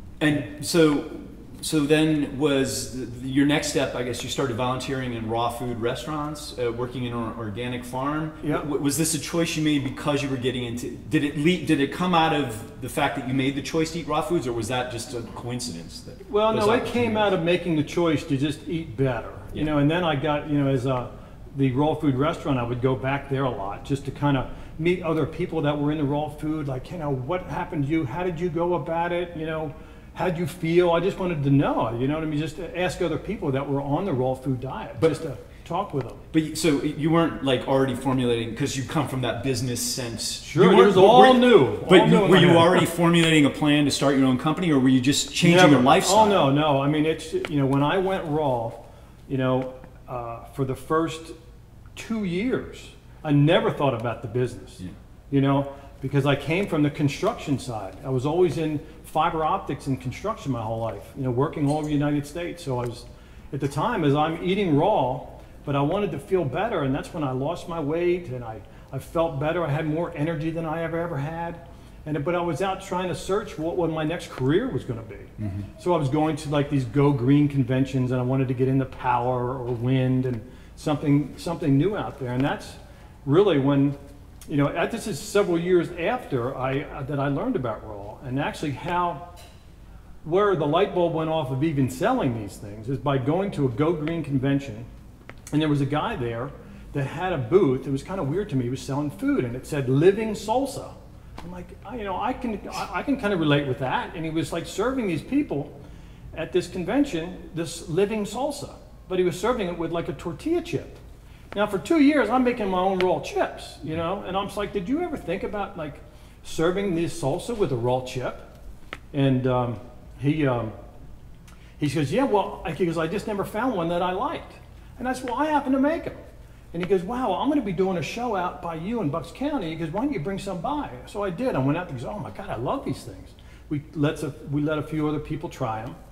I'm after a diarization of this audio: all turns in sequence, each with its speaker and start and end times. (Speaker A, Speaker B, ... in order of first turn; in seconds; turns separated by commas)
Speaker A: 0.2-17.3, Speaker B: 16.3-36.2, Speaker A: 36.3-46.5, Speaker B: 40.4-42.9, Speaker B: 45.4-51.3, Speaker B: 52.0-89.3, Speaker A: 75.4-75.7, Speaker B: 90.2-94.9, Speaker B: 95.5-105.7, Speaker B: 106.3-111.0, Speaker B: 111.5-118.5, Speaker B: 119.1-120.7, Speaker B: 121.8-126.2, Speaker B: 126.7-136.0